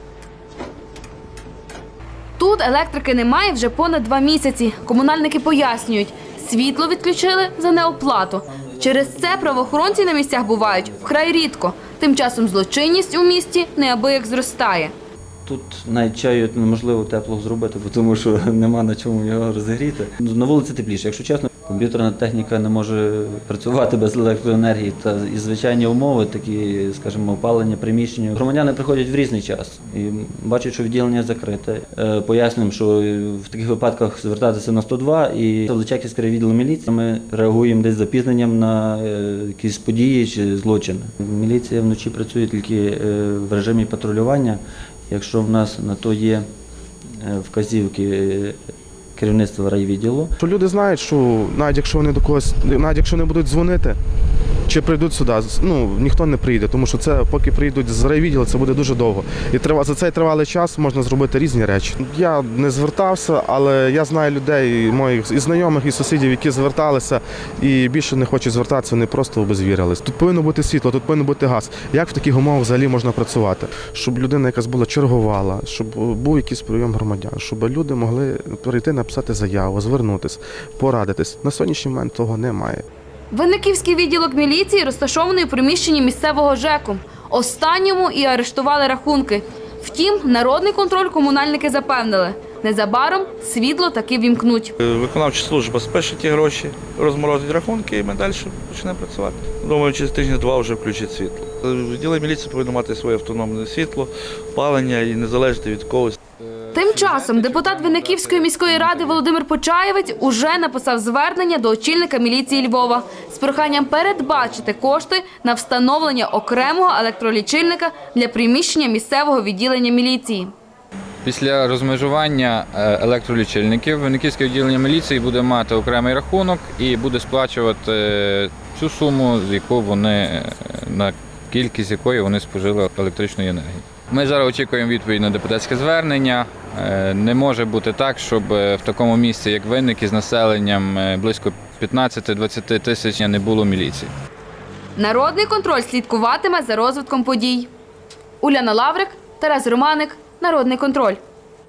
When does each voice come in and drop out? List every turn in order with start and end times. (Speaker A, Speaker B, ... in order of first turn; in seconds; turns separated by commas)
Speaker A: 2.4-14.9, Speaker B: 8.4-11.2, Speaker B: 15.4-46.5, Speaker B: 47.0-48.6, Speaker B: 49.1-50.3, Speaker C: 50.4-54.0, Speaker C: 54.7-82.8, Speaker A: 83.3-94.7, Speaker D: 94.8-106.2, Speaker E: 106.4-109.2, Speaker A: 106.7-120.5, Speaker E: 121.2-144.1, Speaker A: 144.9-147.7, Speaker A: 148.4-151.2